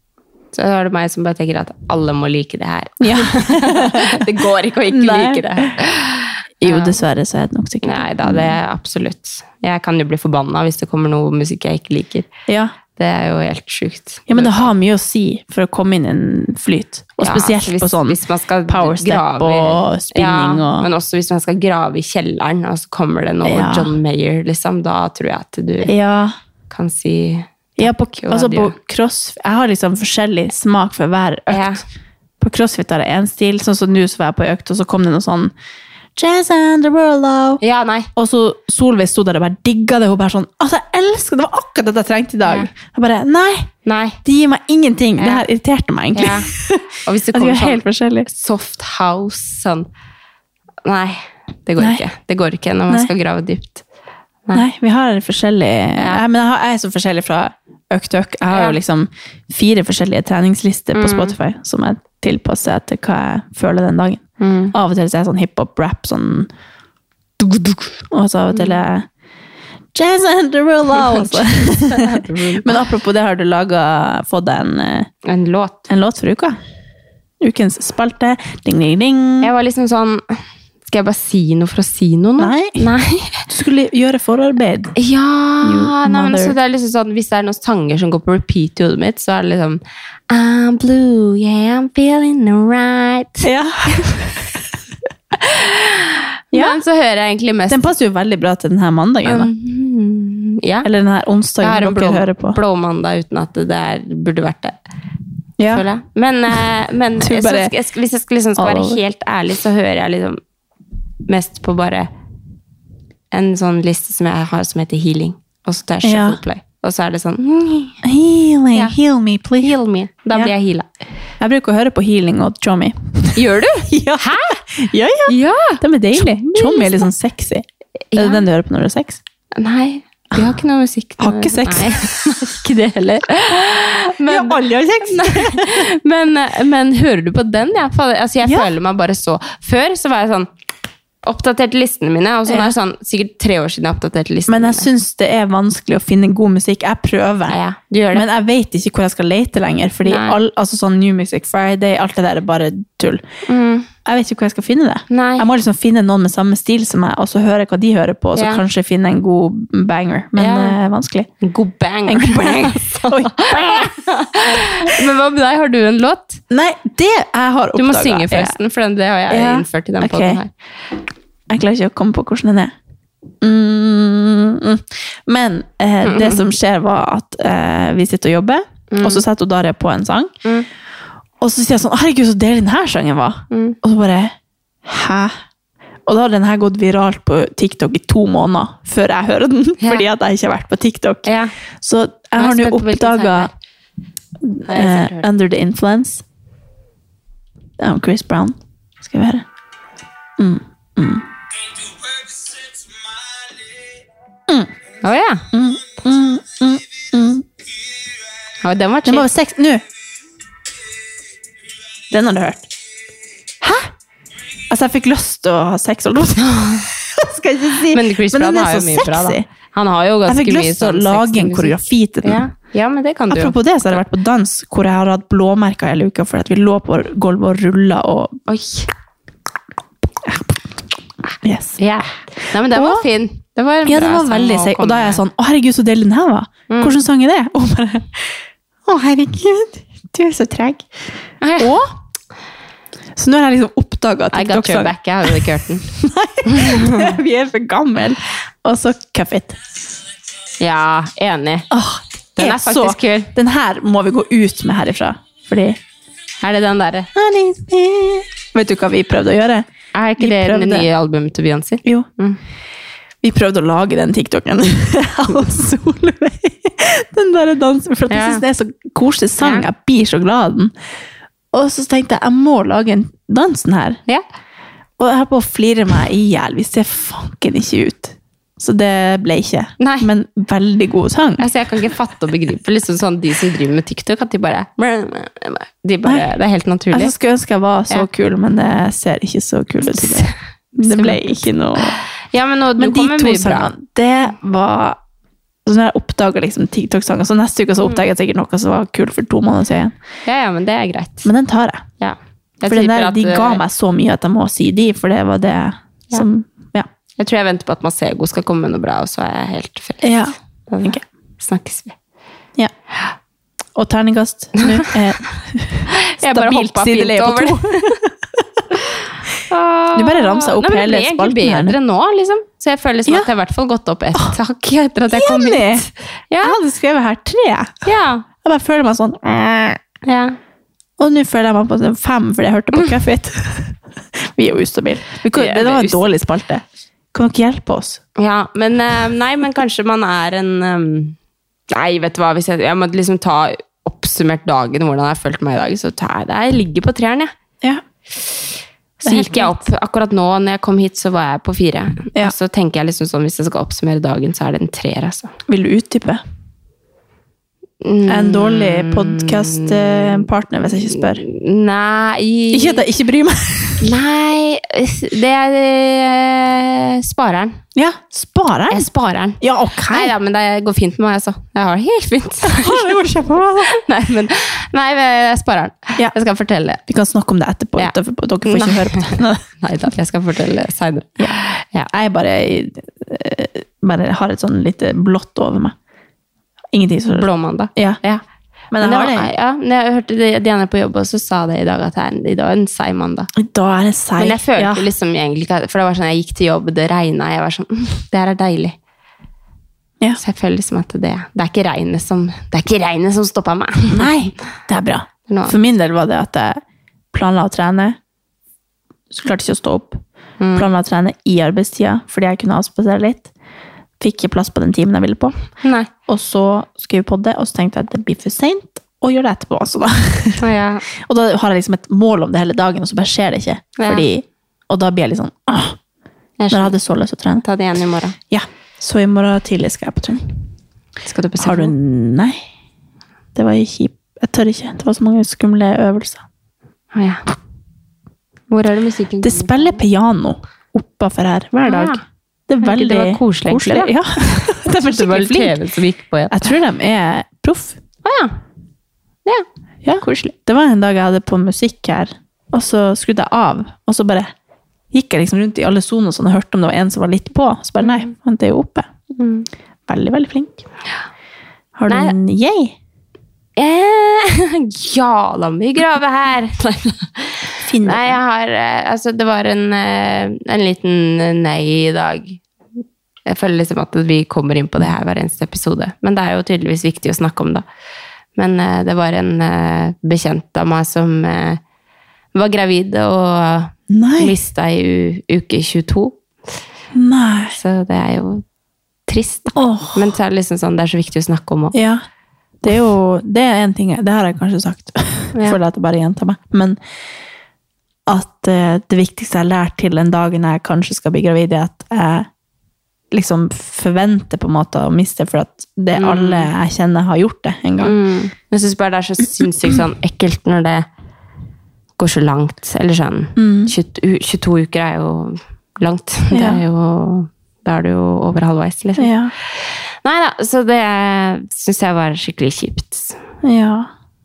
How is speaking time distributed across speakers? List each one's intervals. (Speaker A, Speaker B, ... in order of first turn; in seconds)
Speaker A: 0.5-7.0, 7.8-12.3, 12.9-14.7, 17.2-25.9, 26.7-28.7, 31.5-31.8, 37.6-38.1, 43.9-44.2, 45.2-45.4, 46.1-46.5, 47.0-49.9, 50.8-53.8, 56.0-56.2, 58.5-58.8, 60.9-61.3, 64.4-64.7, 68.5-68.8, 71.0-72.8, 75.2-75.8, 79.4-80.2, 80.8-83.4, 85.0-94.0, 95.4-97.8, 99.2-100.9, 101.6-104.8, 105.7-110.4, 111.3-112.1, 113.3-118.0, 119.6-120.9, 123.3-124.6, 125.3-127.1, 128.1-128.4, 129.6-140.5, 141.2-144.9, 147.5-148.2, 150.1-150.4, 153.5-153.9, 155.1-155.4, 158.3-158.6, 160.4-160.8, 161.4-166.4, 167.8-170.5, 176.0-176.4, 178.9-179.2, 183.5-183.8, 191.2-191.5, 192.4-193.5, 194.7-195.3, 205.0-205.4, 208.6-209.3, 216.4-216.8, 217.9-223.5, 228.5-228.9, 231.8-235.2, 236.7-237.0, 241.4-241.8, 244.3-245.8, 246.5-247.1, 250.6-251.7, 252.4-253.3, 256.4-257.1, 259.9-262.4, 268.1-268.4, 269.4-269.6, 279.8-280.1, 281.4-287.1, 290.0-290.3, 290.8-293.7, 300.2-301.3, 302.0-303.6, 307.2-311.9, 314.6-314.9, 316.0-318.0, 319.5-326.6, 327.8-328.2, 330.1-330.4, 335.3-336.0, 338.2-341.1, 341.7-347.3, 349.0-355.3, 357.8-362.8, 363.8-367.6, 368.7-372.9, 373.7-376.8, 378.4-381.9, 387.1-388.2, 388.8-393.3, 394.2-398.8, 400.2-404.1, 405.3-405.6, 410.4-410.7, 415.6-415.9, 420.4-420.8, 423.8-424.0, 426.4-426.7, 427.4-428.1, 431.0-431.7, 436.9-437.2, 438.5-439.8, 441.6-442.0, 442.6-446.5, 448.0-448.4, 459.2-459.4, 461.9-462.1, 463.6-472.4, 473.2-477.6, 478.4-481.6, 482.3-486.2, 487.5-488.4, 489.1-491.7, 505.9-506.5, 507.8-510.9, 512.0-519.1, 520.0-523.2
Speaker B: 3.0-4.2, 4.9-5.7, 6.6-8.6, 12.5-12.7, 14.3-20.9, 23.4-23.9, 25.8-26.3, 27.8-31.8, 32.4-35.5, 36.2-37.6, 38.1-43.7, 44.2-48.3, 54.5-66.5, 67.4-69.0, 69.9-75.1, 75.9-76.6, 77.4-79.5, 82.4-82.8, 83.5-84.9, 85.6-86.5, 93.4-94.5, 96.5-96.8, 97.7-99.5, 100.8-102.6, 105.6-105.8, 107.2-107.7, 108.6-109.0, 116.0-116.4, 118.0-119.8, 121.4-127.6, 128.2-129.2, 131.2-132.5, 134.3-135.8, 138.4-138.7, 142.5-142.7, 144.5-147.6, 148.1-153.2, 154.0-161.3, 162.1-163.9, 166.5-168.5, 169.3-170.4, 171.5-172.7, 173.4-180.3, 181.4-185.3, 186.1-191.3, 191.8-193.5, 194.4-196.2, 197.8-199.4, 200.4-201.2, 205.5-207.4, 209.1-209.8, 212.1-212.7, 213.6-213.9, 214.7-219.4, 220.2-222.4, 223.3-228.4, 231.4-231.8, 232.7-233.1, 233.8-238.3, 238.8-240.9, 241.6-241.9, 243.2-249.6, 251.7-255.8, 257.1-259.7, 260.2-260.9, 263.2-270.7, 271.5-274.0, 275.0-281.5, 286.9-292.0, 292.8-295.0, 295.6-299.9, 301.2-301.8, 302.6-306.9, 310.0-311.0, 313.8-318.6, 319.9-321.8, 325.1-325.9, 326.4-327.7, 328.4-329.8, 331.0-338.0, 349.0-349.6, 355.5-356.2, 358.1-361.2, 362.5-363.9, 367.8-368.9, 369.4-370.1, 372.4-373.8, 376.9-379.4, 381.9-385.7, 386.7-388.0, 388.7-389.3, 393.4-394.9, 403.9-406.6, 407.1-408.0, 409.1-410.0, 410.6-413.3, 414.0-415.3, 416.1-420.4, 421.0-425.8, 426.5-427.4, 428.3-430.3, 431.4-432.4, 433.3-436.2, 439.2-445.6, 446.3-447.8, 449.8-454.3, 454.9-458.9, 459.9-460.6, 461.8-462.7, 467.6-468.2, 483.9-484.3, 486.9-487.6, 489.6-490.1, 491.7-492.0, 492.6-496.8, 498.1-502.3, 503.1-507.9, 513.4-513.7, 516.3-516.6, 519.0-519.3, 523.4-523.9